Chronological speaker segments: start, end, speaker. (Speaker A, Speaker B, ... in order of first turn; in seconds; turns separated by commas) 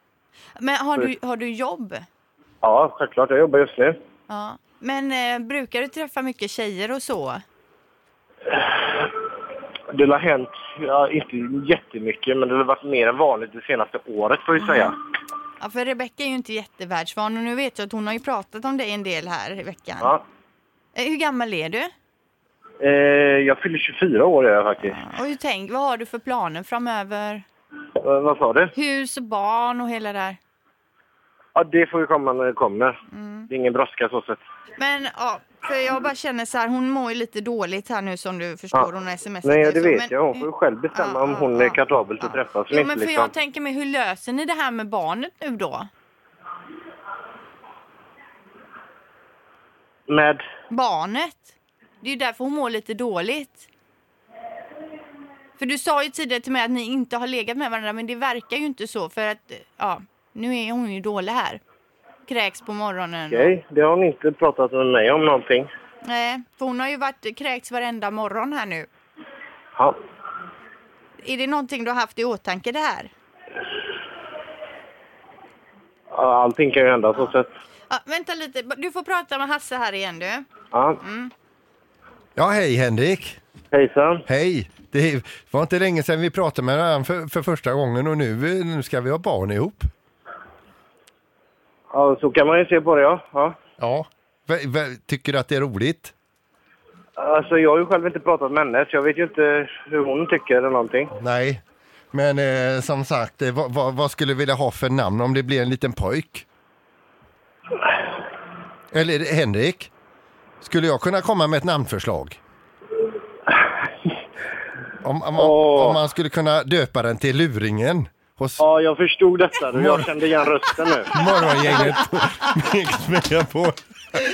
Speaker A: 0.6-2.0, Speaker B: 2.6-4.0, Speaker A: 4.3-7.4, Speaker B: 8.5-9.1, Speaker B: 9.9-14.9, Speaker A: 14.6-14.9, Speaker A: 15.6-20.2, Speaker A: 20.9-21.9, Speaker B: 22.8-25.0, Speaker A: 24.8-27.4, Speaker B: 28.0-28.7, Speaker A: 28.7-30.4, Speaker B: 31.5-32.9, Speaker A: 33.1-33.5, Speaker B: 33.5-34.4, Speaker A: 34.8-45.9, Speaker B: 39.4-43.3, Speaker B: 50.1-50.4, Speaker A: 50.7-51.5, Speaker A: 52.0-53.6, Speaker A: 55.6-61.6, Speaker A: 62.3-63.5, Speaker B: 63.3-65.7, Speaker A: 66.0-68.9, Speaker A: 71.2-73.1, Speaker B: 76.1-77.5, Speaker A: 77.9-80.5, Speaker B: 80.7-81.0, Speaker A: 81.0-81.3, Speaker C: 82.3-83.4, Speaker B: 83.7-84.2, Speaker C: 84.3-89.9, Speaker B: 91.9-93.5, Speaker C: 93.8-96.1, Speaker B: 97.2-101.1, Speaker C: 101.1-106.4, Speaker C: 108.9-109.9, Speaker C: 110.6-112.4, Speaker C: 115.0-118.6, Speaker B: 115.4-116.0, Speaker B: 118.6-121.1, Speaker C: 119.7-120.1, Speaker C: 121.1-123.8